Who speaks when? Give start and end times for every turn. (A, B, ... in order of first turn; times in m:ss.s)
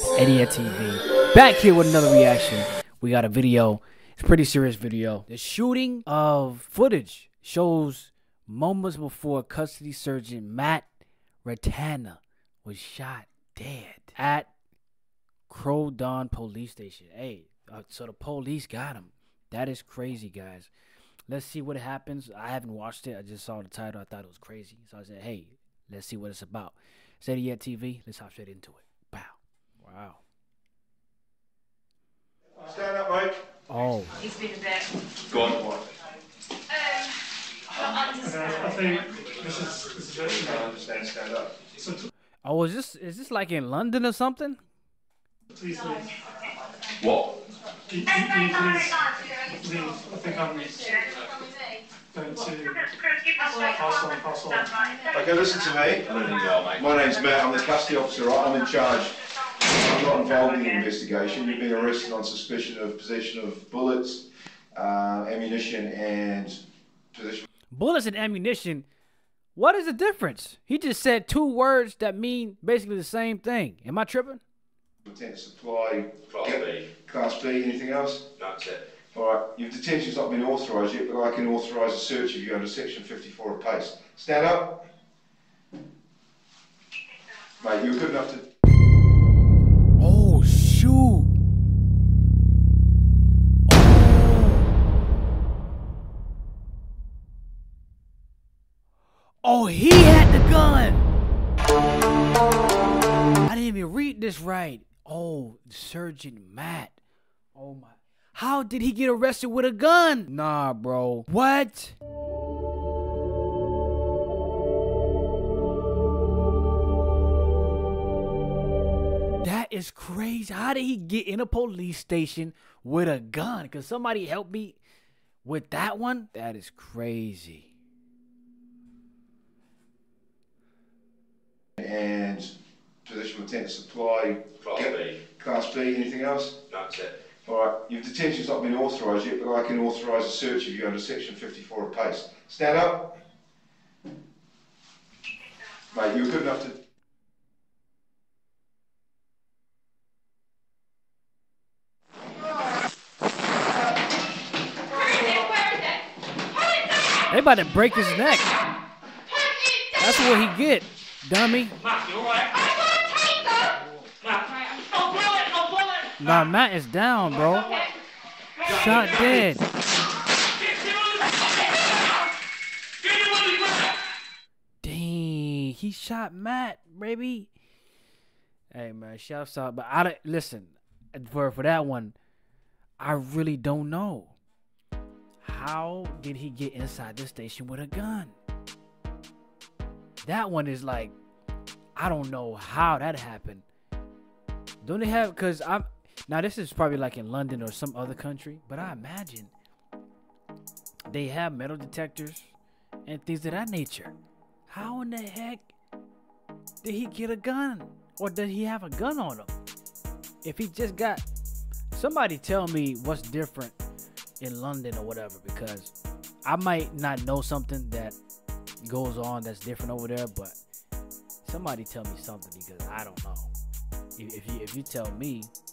0:00.1-0:10.9 A
0:11.4-0:14.5 A
0:15.5-0:20.7 A
0:21.3-0:30.2 A
0:32.6-0:33.4 B
0:33.7-0:34.2 A
0:34.2-0:34.9 C
0:35.3-0:35.8 B
0:35.3-0:35.6 D
0:36.7-0:37.1 C
0:37.7-0:39.1 C
0:38.1-0:40.7 E
0:39.4-0:39.6 D
0:40.2-0:41.6 B
0:41.8-0:42.1 E
0:42.4-0:44.6 A
0:45.5-0:46.1 E
0:47.0-0:47.3 D
0:47.9-0:51.0 E
0:52.1-0:52.9 E
0:53.6-0:54.9 E
0:55.1-1:06.6 B
0:56.0-0:56.9 D
1:07.1-1:07.4 B
1:07.7-1:08.9 A
1:09.5-1:14.4 A
1:15.0-1:18.3 B
1:16.3-1:16.8 D
1:18.4-1:18.8 D
1:19.1-1:24.8 B
1:27.6-1:28.5 B
1:30.0-1:31.3 A
1:33.7-1:34.7 A
1:39.4-1:41.1 A
1:43.4-1:47.0 A
1:47.5-1:52.0 A
1:59.4-2:04.8 A
2:05.4-2:07.7 A
2:11.8-2:12.5 B
2:13.0-2:16.6 B
2:14.6-2:15.2 D
2:16.7-2:17.2 D
2:17.4-2:23.1 B
2:25.9-2:26.8 B
2:35.0-2:36.0 C
2:37.3-2:38.5 A
2:39.3-2:40.0 C
2:40.0-2:41.8 A
2:42.0-2:43.6 C
2:44.2-2:46.1 C
2:46.2-2:47.7 A
2:47.5-2:47.9 C
2:48.6-2:49.7 A
2:48.6-2:49.0 C
2:51.0-2:51.4 C
2:53.0-2:53.8 C
2:54.8-2:57.5 A
2:58.7-3:02.2 A
3:03.0-3:04.4 A
3:05.4-3:08.3 A
3:10.2-3:11.1 A
3:12.0-3:13.6 A
3:14.8-3:19.5 A
3:21.1-3:22.5 A
3:23.0-3:24.1 A
3:24.7-3:25.7 A
3:26.8-3:29.5 A
3:30.4-3:31.2 A
3:31.9-3:33.8 A
3:34.4-3:35.9 A
3:36.4-3:38.2 A
3:38.8-3:40.6 A
3:41.4-3:43.5 A
3:44.2-3:45.5 A